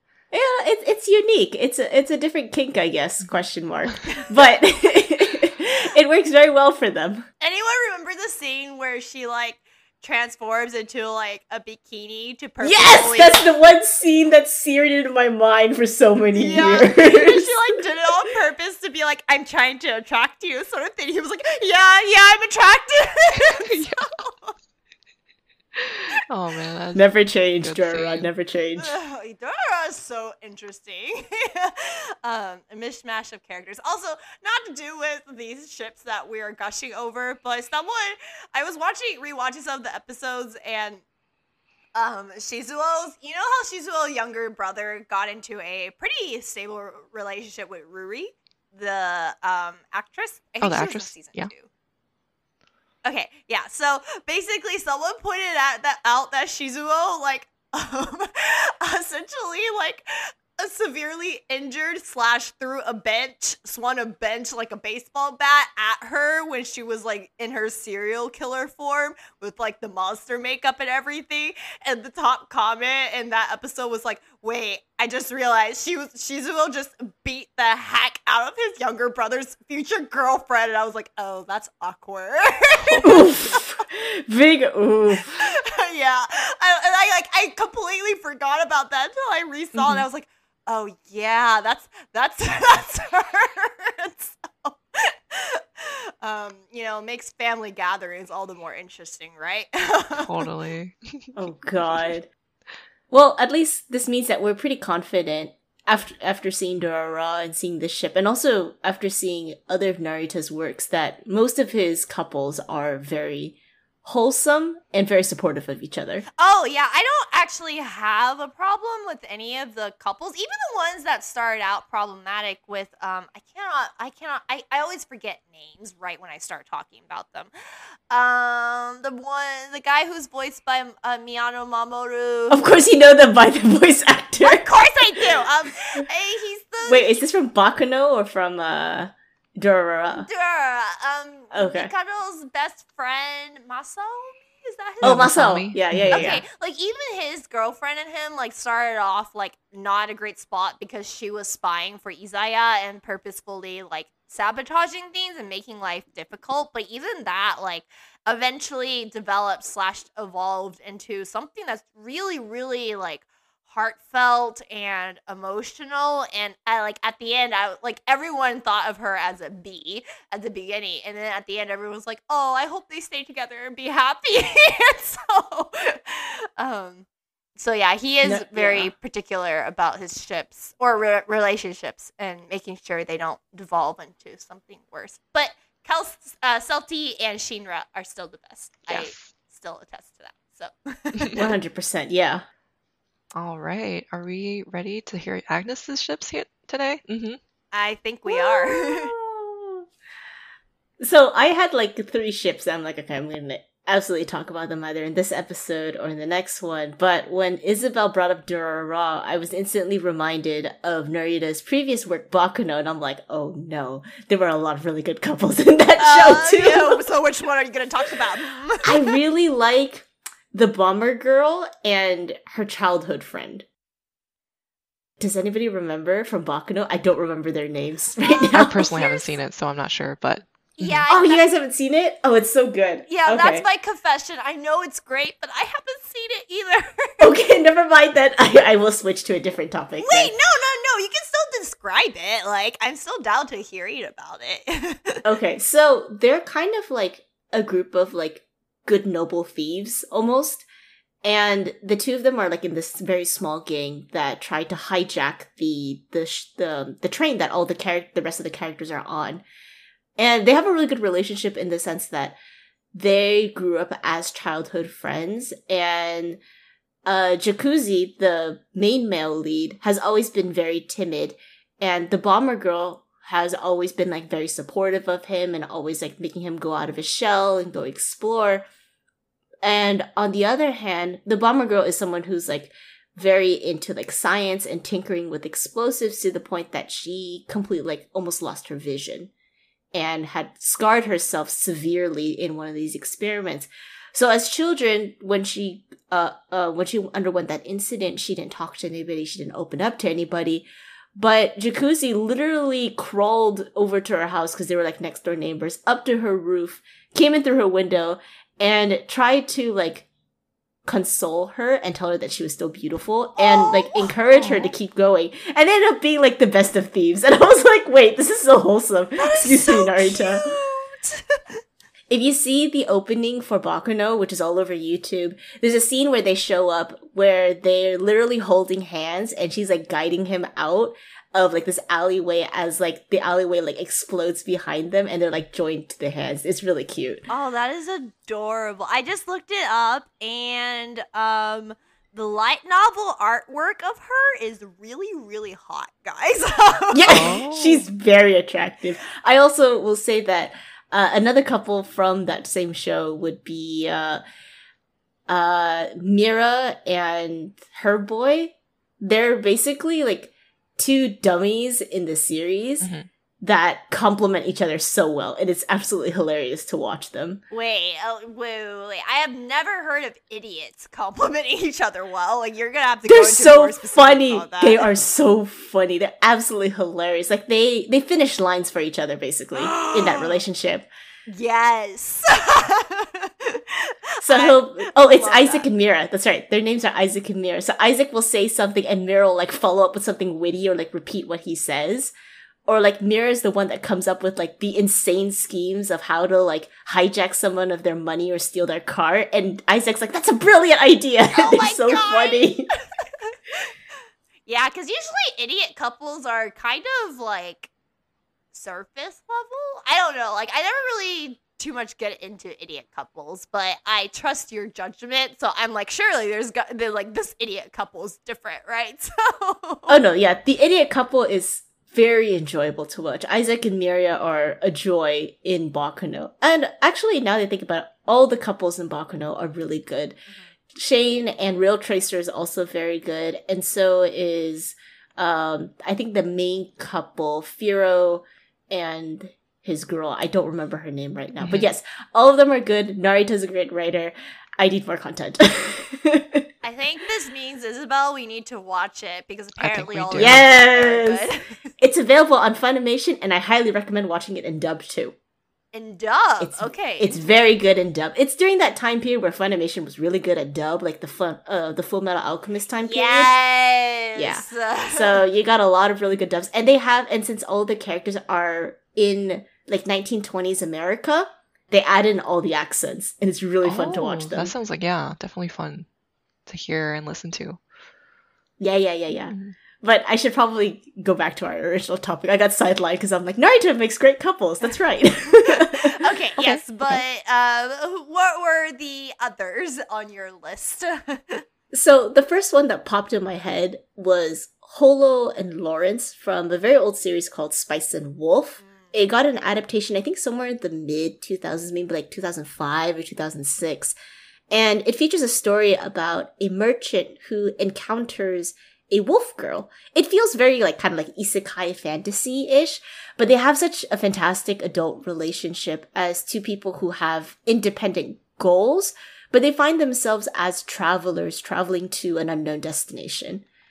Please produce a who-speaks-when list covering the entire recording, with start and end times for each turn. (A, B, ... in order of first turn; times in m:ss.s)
0:00.3-0:07.2 A
0:04.0-0:04.3 B
0:07.4-0:13.4 B
0:12.6-0:17.8 A
0:16.4-0:24.5 B
0:23.6-0:24.1 C
0:25.9-0:28.3 C
0:26.9-0:28.9 A
0:28.8-0:41.0 B
0:42.0-0:51.7 B
0:50.6-0:51.5 C
0:53.0-1:00.0 B
1:00.6-1:23.6 B
1:23.0-1:25.4 A
1:25.4-1:40.5 B
1:29.7-1:30.0 C
1:40.2-1:41.3 C
1:41.4-1:42.3 A
1:43.1-1:56.2 A
1:56.4-2:07.5 B
2:08.1-2:12.6 B
2:12.5-2:15.4 A
2:14.4-2:17.2 B
2:16.8-2:20.3 A
2:20.2-2:25.3 B
2:21.5-2:21.9 A
2:25.0-2:26.3 C
2:25.0-2:26.4 A
2:26.1-3:11.4 B
2:58.2-2:58.9 A
3:08.9-3:09.3 C
3:11.3-3:12.4 A
3:13.3-3:17.4 C
3:17.7-3:19.1 B
3:18.2-3:19.9 A
3:21.0-3:37.0 A
3:36.0-3:39.1 B
3:38.8-3:43.6 A
3:45.2-3:48.9 A
3:48.2-3:49.3 B
3:48.5-3:51.0 C
3:50.8-3:51.5 B
3:51.1-3:53.6 A
3:53.1-3:57.3 B
3:57.2-4:00.3 A
4:00.0-4:05.2 B
4:05.2-4:10.6 A
4:11.2-4:19.4 A
4:20.2-4:22.4 A
4:22.9-4:26.4 A
4:27.0-4:38.6 A
4:39.6-4:49.3 A
4:49.9-5:10.1 A
5:10.8-5:20.5 A
5:13.4-5:14.1 B
5:14.4-5:14.7 C
5:19.2-5:21.4 B
5:22.1-5:37.3 A
5:37.3-5:47.3 B
5:46.9-5:54.2 A
5:47.1-5:47.8 C
5:55.3-6:02.9 A
6:02.8-6:03.1 C
6:03.4-6:07.4 A
6:07.5-6:14.8 B
6:13.0-6:20.9 A
6:19.5-6:20.4 B
6:21.3-6:25.7 B
6:24.2-6:32.1 A
6:32.6-6:42.7 A
6:41.3-6:43.3 B
6:44.5-6:47.7 B
6:48.5-7:00.0 B
6:59.9-7:10.2 A
7:10.7-7:26.5 A
7:21.4-7:21.7 C
7:26.6-7:31.6 B
7:29.6-7:30.4 C
7:30.2-7:31.2 A
7:31.8-7:35.1 A
7:35.7-7:37.2 B
7:36.4-7:43.3 A
7:42.8-7:45.2 B
7:44.2-7:54.5 A
7:53.6-7:55.9 C
7:56.5-7:57.6 C
7:58.6-8:07.0 A
8:05.4-8:11.4 B
8:11.7-8:23.9 A
8:18.7-8:18.9 B
8:24.5-8:43.4 A